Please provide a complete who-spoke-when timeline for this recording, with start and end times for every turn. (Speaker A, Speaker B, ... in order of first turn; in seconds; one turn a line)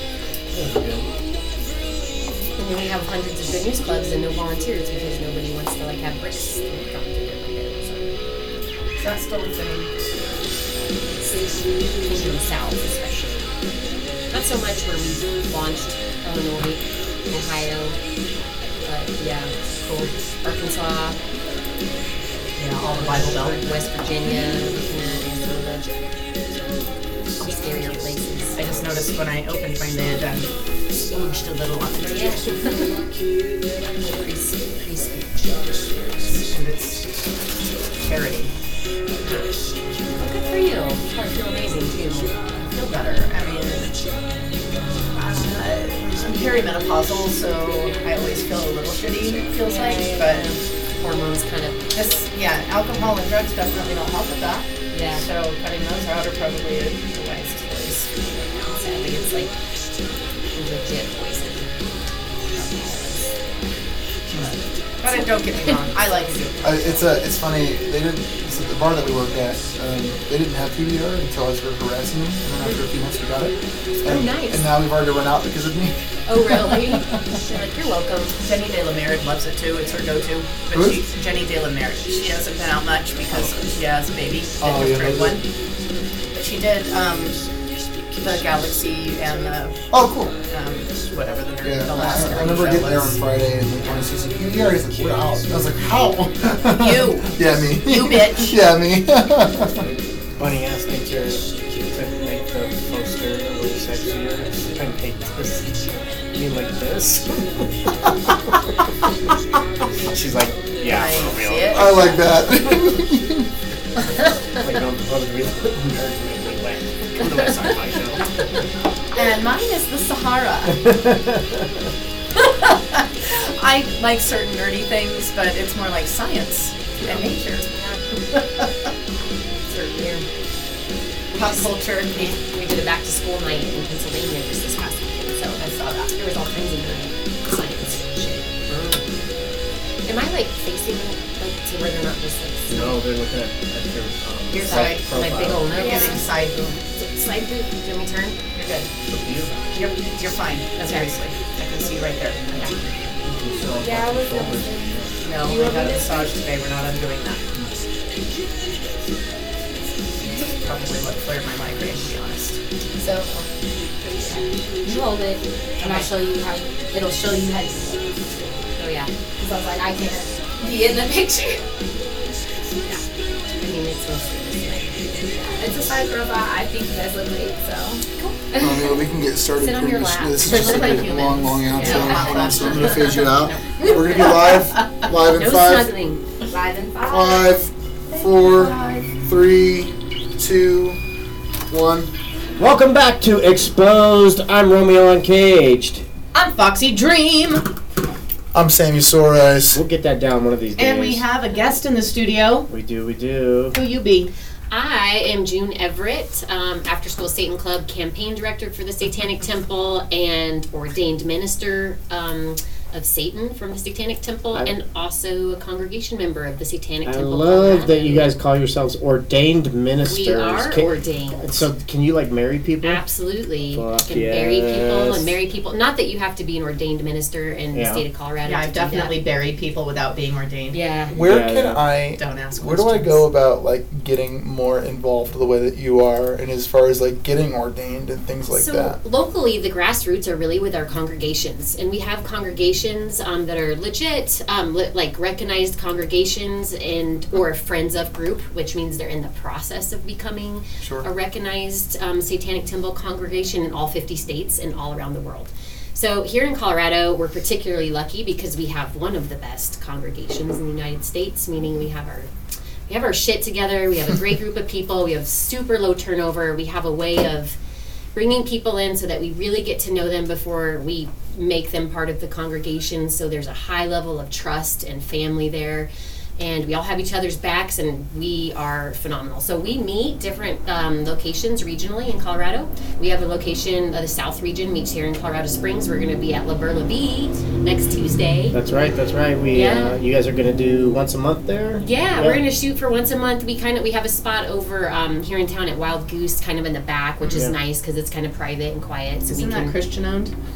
Speaker A: 0.5-1.1
Speaker B: 2.6-8.2
Speaker C: 9.0-9.9
Speaker B: 12.0-13.5
Speaker B: 14.3-18.0
Speaker B: 18.8-19.5
Speaker C: 19.8-20.1
Speaker B: 20.4-21.2
Speaker C: 22.5-23.8
Speaker B: 22.8-26.0
Speaker B: 27.4-29.0
Speaker C: 28.5-32.5
Speaker B: 32.0-33.0
Speaker B: 34.0-35.3
Speaker B: 35.8-36.3
Speaker C: 36.4-38.5
Speaker B: 39.2-39.5
Speaker B: 40.1-42.6
Speaker C: 42.6-43.9
Speaker B: 44.8-45.2
Speaker C: 45.1-50.5
Speaker B: 49.6-51.9
Speaker C: 51.9-58.3
Speaker B: 54.9-55.2
Speaker B: 58.2-59.5
Speaker B: 60.5-61.7
Speaker B: 62.5-63.5
Speaker C: 65.0-67.0
Speaker B: 65.1-65.8
Speaker D: 66.6-77.2
Speaker B: 72.6-72.8
Speaker B: 74.0-74.7
Speaker B: 76.3-78.4
Speaker C: 78.4-85.4
Speaker D: 80.7-81.1
Speaker D: 84.6-85.4
Speaker C: 86.3-87.4
Speaker C: 88.2-89.8
Speaker D: 89.9-90.3
Speaker C: 90.4-93.2
Speaker D: 91.6-99.8
Speaker C: 96.7-98.6
Speaker A: 99.8-108.6
Speaker A: 110.0-112.0
Speaker C: 110.8-112.3
Speaker D: 111.7-113.5
Speaker A: 114.6-118.3
Speaker C: 119.1-120.8
Speaker A: 120.8-121.7
Speaker C: 122.4-127.7
Speaker B: 127.7-128.0
Speaker B: 129.7-130.2
Speaker C: 131.3-132.3
Speaker B: 131.3-135.6
Speaker C: 135.4-136.2
Speaker B: 136.2-138.9
Speaker B: 140.1-143.0
Speaker A: 142.7-145.7
Speaker C: 144.5-145.1
Speaker B: 144.6-146.2
Speaker C: 145.7-146.8
Speaker E: 145.7-146.2
Speaker B: 146.9-148.4
Speaker C: 148.5-148.9
Speaker A: 149.1-149.5
Speaker C: 149.6-153.0
Speaker B: 150.8-151.1
Speaker A: 153.2-155.1
Speaker E: 153.7-156.4
Speaker C: 155.2-157.4
Speaker C: 160.2-162.6
Speaker E: 162.9-163.5
Speaker E: 164.0-168.6
Speaker B: 168.8-169.1
Speaker E: 169.4-171.6
Speaker B: 173.6-176.0
Speaker E: 175.5-178.9
Speaker D: 178.6-185.9
Speaker B: 179.6-183.1
Speaker C: 180.4-184.9
Speaker B: 183.8-184.5
Speaker B: 185.3-186.2
Speaker E: 186.5-189.1
Speaker D: 187.0-191.0
Speaker D: 191.7-192.1
Speaker A: 192.6-196.0
Speaker C: 196.3-197.7
Speaker D: 198.5-199.8
Speaker A: 199.7-201.2
Speaker C: 200.8-202.7
Speaker A: 202.7-203.8
Speaker C: 203.7-204.3
Speaker B: 204.7-218.3
Speaker A: 217.0-223.0
Speaker B: 220.0-221.6
Speaker B: 222.8-229.2
Speaker A: 223.7-225.3
Speaker A: 227.7-228.0
Speaker C: 228.4-230.8
Speaker B: 230.7-231.2
Speaker D: 231.1-239.0
Speaker A: 231.2-231.8
Speaker C: 232.2-233.2
Speaker B: 238.5-262.3
Speaker D: 250.8-251.1
Speaker B: 262.9-267.6
Speaker B: 268.1-288.6
Speaker A: 288.5-292.4
Speaker B: 289.5-290.0
Speaker B: 291.8-299.8
Speaker C: 299.3-300.3